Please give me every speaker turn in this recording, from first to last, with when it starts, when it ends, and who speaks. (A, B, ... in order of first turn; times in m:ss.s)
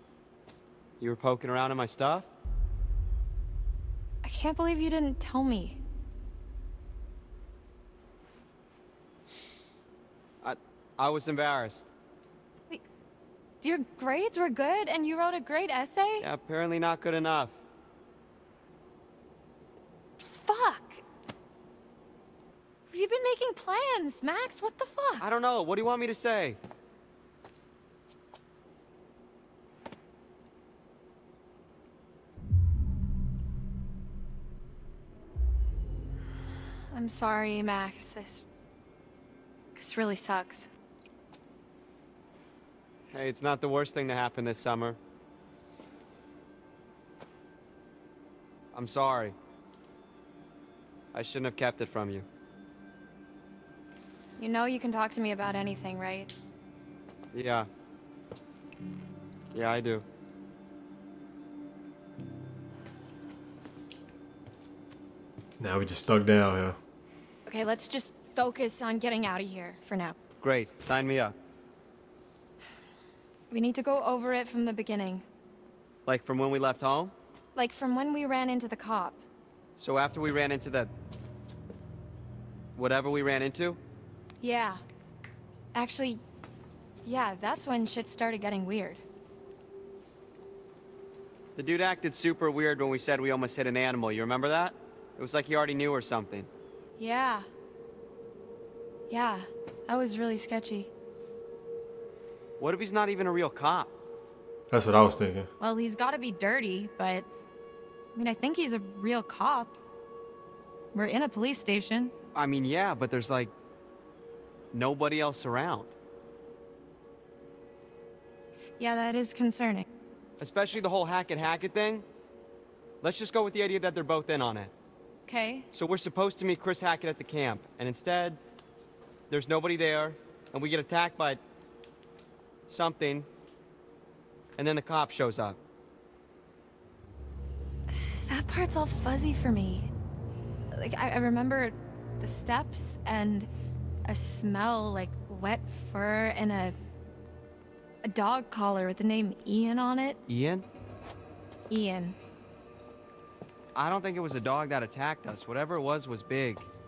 0:01.0-0:02.3 A
0:04.2-0:05.8 B
0:10.4-0:11.9 A
0:13.6-0:16.2 B
0:16.2-0:17.6 A
0:20.2-0:21.0 B
0:22.9-0:25.2 B
0:25.2-0:26.6 A
0:36.9-0:38.4 B
0:39.8-0:40.7 B
0:43.1-0:45.0 A
0:48.7-0:49.4 A
0:51.1-0:52.2 A
0:54.4-0:56.3 B
0:57.3-0:57.7 A
0:59.5-1:00.0 A
1:05.6-1:06.8 C
1:07.4-1:10.2 B
1:10.4-1:11.3 A
1:13.5-1:15.2 B
1:16.0-1:17.1 A
1:17.5-1:19.2 B
1:19.8-1:20.9 A
1:22.8-1:23.8 A
1:24.4-1:24.8 B
1:25.7-1:26.2 B
1:27.0-1:29.0 B
1:31.6-1:36.5 A
1:37.0-1:37.5 B
1:39.1-1:40.9 B
1:42.6-1:43.9 A
1:44.7-1:45.5 C
1:45.6-1:47.3 B
1:48.1-1:49.8 B
1:50.9-1:52.1 B
1:52.3-1:53.5 A
1:54.7-1:55.9 A
1:58.8-1:59.9 B
2:00.4-2:02.0 A
2:03.0-2:04.7 A
2:05.3-2:05.7 B
2:05.7-2:08.4 A
2:09.3-2:11.4 A
2:12.7-2:13.3 A
2:14.6-2:15.6 A
2:17.9-2:19.9 B
2:20.7-2:23.5 B
2:24.0-2:26.8 B
2:28.0-2:30.2 B
2:30.3-2:30.6 A
2:31.7-2:32.2 B
2:33.7-2:36.7 A